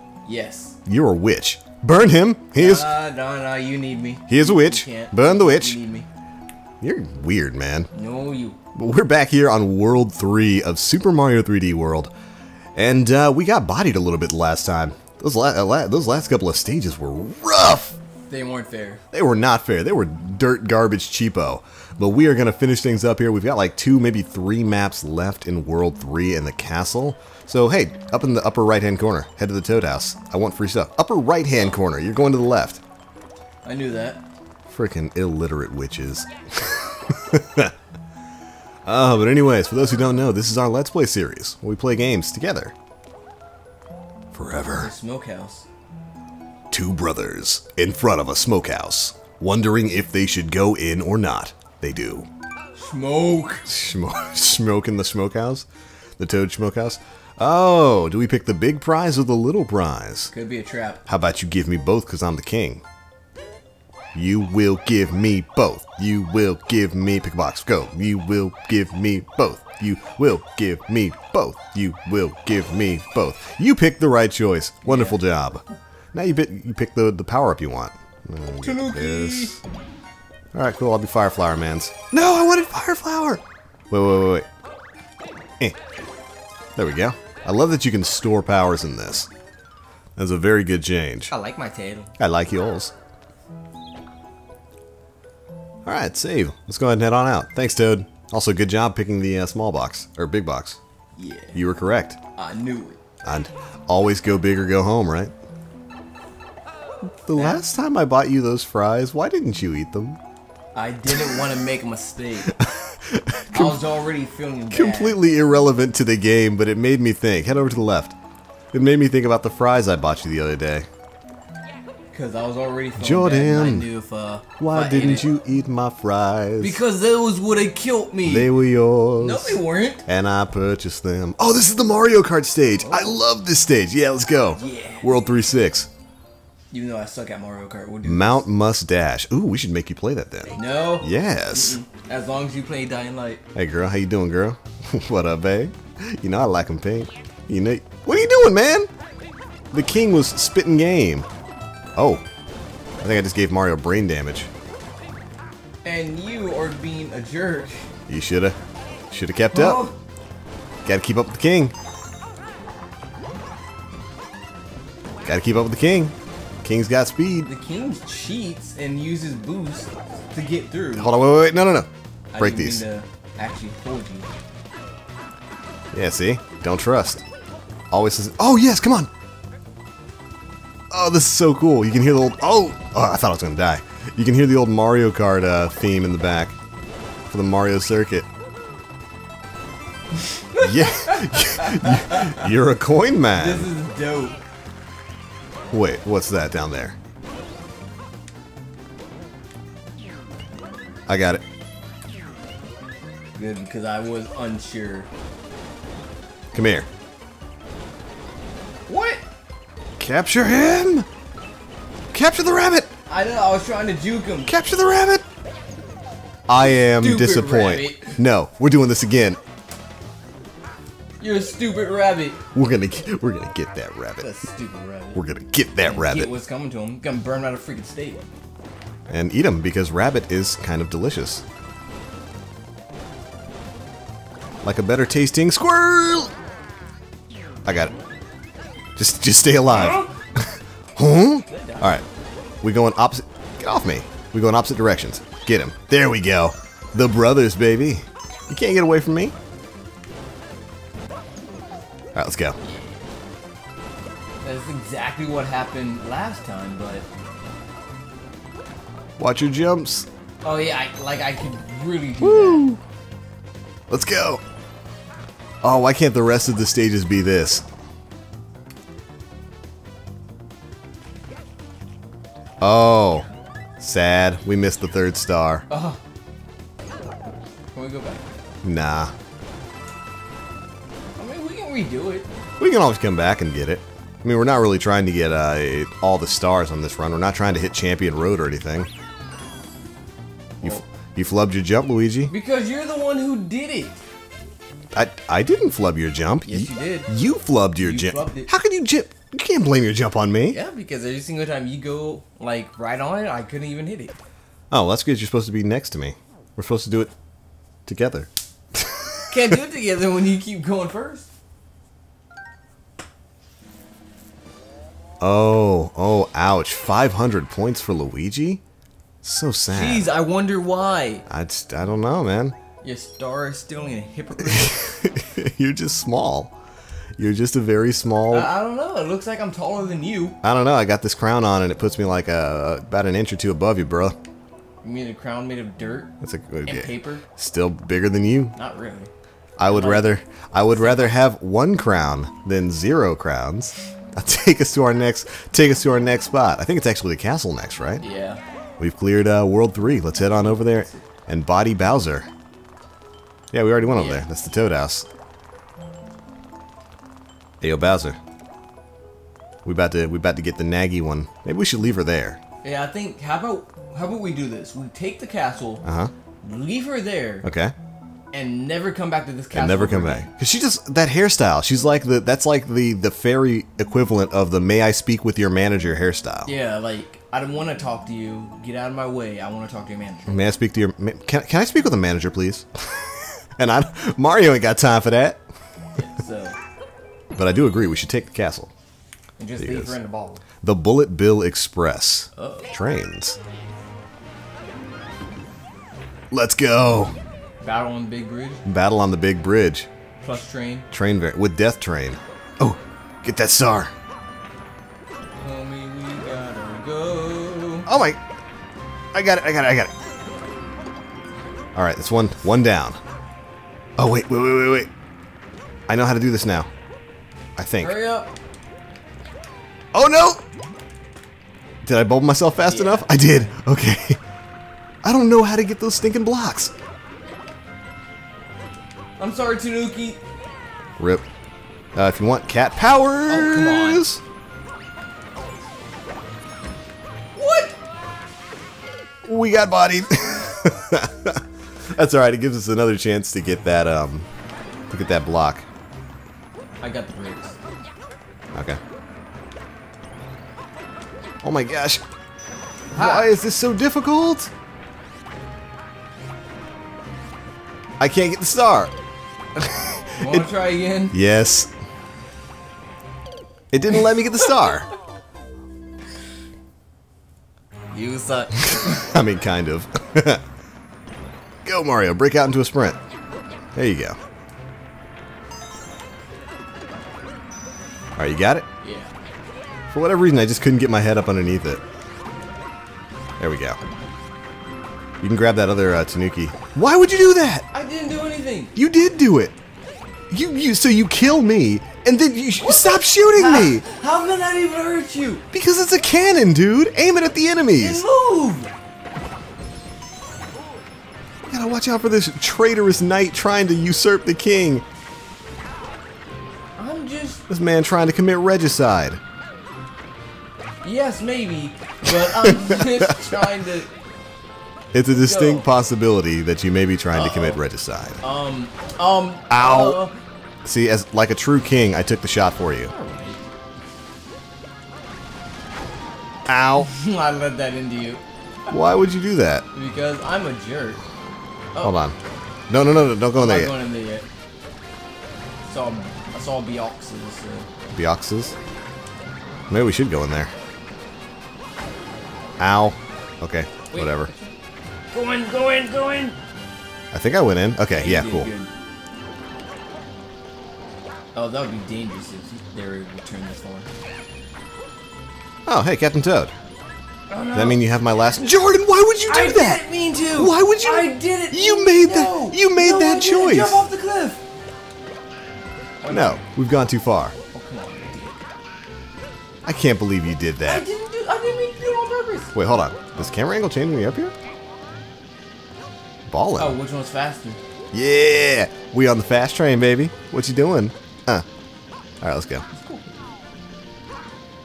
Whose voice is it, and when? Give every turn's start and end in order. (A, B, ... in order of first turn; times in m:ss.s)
0:00.2-0:00.8 A
0:00.8-0:03.0 B
0:02.6-0:06.1 A
0:04.3-0:05.8 B
0:06.8-0:07.9 B
0:07.9-0:08.6 A
0:08.7-0:12.1 B
0:12.7-0:18.0 B
0:18.3-0:19.0 A
0:19.1-0:32.8 B
0:33.6-0:34.2 A
0:34.7-0:37.7 B
0:38.8-0:42.7 B
0:44.3-0:44.9 B
0:44.7-0:45.6 A
0:46.7-0:52.3 B
0:52.7-0:53.6 A
0:53.6-0:55.7 B
0:56.2-1:00.3 B
1:00.3-1:01.0 A
1:01.1-1:02.8 B
1:04.1-1:19.6 B
1:14.8-1:15.2 A
1:18.6-1:19.6 A
1:20.5-1:24.5 B
1:26.8-1:29.3 B
1:30.2-1:31.3 B
1:31.3-1:32.1 A
1:32.2-1:32.9 B
1:35.8-1:40.8 B
1:41.2-1:41.6 A
1:41.5-1:42.2 B
1:42.3-1:43.0 A
1:43.2-1:45.3 B
1:47.0-1:50.2 B
1:47.3-1:47.6 A
1:50.7-1:52.6 A
1:51.1-1:51.4 B
1:52.5-1:53.8 B
1:53.5-1:55.2 A
1:54.7-1:58.2 B
1:58.7-2:00.9 B
2:02.1-2:05.3 A
2:03.0-2:03.9 B
2:04.6-2:06.8 B
2:06.6-2:08.5 A
2:08.2-2:15.9 B
2:09.2-2:10.0 A
2:12.8-2:13.2 A
2:14.5-2:15.3 A
2:16.7-2:18.4 A
2:18.0-2:21.8 B
2:20.5-2:23.4 A
2:23.5-2:28.9 B
2:29.7-2:31.3 B
2:32.0-2:32.2 B
2:33.0-2:34.5 B
2:35.8-2:37.9 A
2:38.1-2:38.6 B
2:39.1-2:39.8 B
2:39.5-2:39.9 A
2:40.8-2:41.7 B
2:45.2-2:47.5 B
2:47.4-2:51.2 A
2:50.9-2:52.8 B
2:52.3-2:54.3 A
2:55.9-2:57.2 B
2:57.9-2:59.1 B
3:00.9-3:06.6 B
3:07.3-3:08.3 B
3:10.3-3:12.5 A
3:10.6-3:13.7 B
3:13.3-3:14.4 A
3:15.7-3:17.0 B
3:21.1-3:21.4 B
3:23.4-3:25.1 A
3:26.5-3:26.9 B
3:28.9-3:29.2 A
3:30.0-3:31.1 B
3:32.1-3:32.9 B
3:33.1-3:34.5 A
3:34.5-3:35.2 B
3:36.5-3:39.4 B
3:36.5-3:38.2 A
3:41.2-3:42.4 A
3:42.5-3:44.3 B
3:44.2-3:45.2 A
3:45.1-3:46.3 B
3:45.8-3:48.3 A
3:49.1-3:51.4 B
3:54.6-3:56.3 B
3:57.6-3:57.9 B
3:59.0-4:02.0 B
3:59.7-4:00.1 A
4:01.3-4:02.0 A
4:02.6-4:09.3 B
4:12.1-4:12.6 B
4:12.6-4:12.9 A
4:14.4-4:17.0 A
4:19.2-4:20.1 B
4:20.4-4:22.7 A
4:22.2-4:22.8 B
4:23.9-4:24.4 B
4:25.6-4:27.6 B
4:32.6-4:33.3 B
4:33.8-4:35.7 B
4:35.7-4:36.0 A
4:37.7-4:38.3 A
4:38.6-4:39.1 B
4:41.2-4:42.3 A
4:42.6-4:48.9 B
4:50.6-4:52.3 B
4:52.3-4:54.0 A
4:54.9-5:00.6 B
4:56.4-4:57.1 A
4:57.8-4:58.5 A
5:00.5-5:04.2 A
5:04.7-5:07.1 B
5:07.8-5:09.6 B
5:09.3-5:11.3 A
5:15.2-5:18.6 B
5:19.2-5:20.1 B
5:19.7-5:21.2 A
5:21.3-5:22.5 B
5:22.8-5:24.8 A
5:24.4-5:26.5 B
5:27.2-5:28.5 B
5:28.3-5:30.4 A
5:30.4-5:34.2 B
5:34.8-5:36.1 A
5:36.2-5:38.5 B
5:36.6-5:37.2 A
5:38.6-5:39.1 A
5:39.6-5:48.0 B
5:39.7-5:40.2 A
5:40.7-5:41.1 A
5:48.0-5:48.4 A
5:48.8-5:52.3 B
5:50.2-5:51.0 A
5:53.5-5:55.1 B
5:53.9-5:54.2 A
5:57.6-5:58.2 B
5:59.6-6:02.4 B
6:02.6-6:05.8 A
6:05.8-6:06.1 B
6:06.4-6:07.4 A
6:07.4-6:07.7 B
6:08.3-6:10.3 A
6:09.5-6:16.5 B
6:16.4-6:20.4 A
6:20.3-6:25.4 B
6:26.0-6:26.6 A
6:27.3-6:28.7 B
6:29.4-6:30.4 A
6:29.6-6:29.9 B
6:30.6-6:33.4 B
6:32.3-6:32.7 A
6:36.3-6:37.1 B
6:37.6-6:38.6 A
6:38.6-6:39.9 B
6:40.2-6:40.9 A
6:40.9-6:43.9 B
6:45.4-6:47.9 A
6:47.8-6:48.2 B
6:49.1-6:49.9 B
6:51.7-6:53.0 B
6:54.0-6:54.9 B
6:55.9-6:56.7 B
6:57.6-6:58.0 B
6:57.8-6:58.3 A
6:59.9-7:00.4 B
7:01.8-7:04.2 B
7:02.6-7:03.5 A
7:05.0-7:06.7 B
7:09.2-7:10.2 A
7:11.0-7:11.2 B
7:11.9-7:14.2 B
7:13.3-7:14.1 A
7:17.3-7:17.8 A
7:19.2-7:21.4 B
7:21.9-7:24.3 B
7:24.9-7:25.6 B
7:26.8-7:27.5 A
7:28.5-7:28.8 B
7:31.4-7:32.0 B
7:32.9-7:34.5 B
7:32.9-7:33.3 A
7:38.0-7:38.9 B
7:39.6-7:40.4 B
7:40.2-7:41.2 A
7:41.1-7:41.7 B
7:43.7-7:44.9 B
7:47.9-7:49.1 A
7:48.6-7:50.4 B
7:51.6-7:53.0 B
7:53.7-7:54.2 B
7:58.2-7:58.6 B
7:58.8-7:59.1 A
7:59.9-8:01.8 B
8:03.4-8:03.8 B
8:05.2-8:07.6 B
8:07.7-8:08.7 A
8:08.7-8:09.5 B
8:10.3-8:13.8 B
8:12.6-8:15.4 A
8:15.5-8:18.0 B
8:17.8-8:18.7 A
8:21.5-8:24.8 B
8:26.8-8:27.4 A
8:27.5-8:29.2 B
8:30.8-8:33.9 A
8:32.1-8:33.4 B
8:34.9-8:38.2 B
8:35.2-8:35.7 A
8:37.1-8:37.6 A
8:38.2-8:40.2 A
8:39.5-8:40.0 B
8:40.6-8:42.9 B
8:42.8-8:43.5 A
8:46.5-8:46.9 B
8:46.8-8:48.2 A
8:48.7-8:49.6 B
8:49.7-8:51.0 A
8:51.7-8:52.0 A
8:51.8-8:52.2 B
8:52.7-8:53.7 B
8:53.3-8:54.3 A
8:55.6-8:57.7 A
8:57.9-8:58.6 B
8:59.7-9:00.5 B
9:02.6-9:04.3 B
9:03.9-9:04.6 A
9:05.1-9:06.4 A
9:07.1-9:08.5 B
9:07.9-9:08.7 A
9:11.3-9:13.9 A
9:15.6-9:16.5 B
9:17.3-9:17.8 A
9:17.5-9:19.8 B
9:19.3-9:24.4 A
9:20.4-9:23.9 B
9:26.0-9:26.4 A
9:26.1-9:27.4 B
9:27.5-9:28.4 A
9:29.6-9:30.9 B
9:30.6-9:33.2 A
9:32.5-9:34.3 B
9:36.3-9:36.8 B
9:36.6-9:37.6 A
9:37.9-9:41.4 B
9:42.2-9:42.6 B
9:42.7-9:43.1 A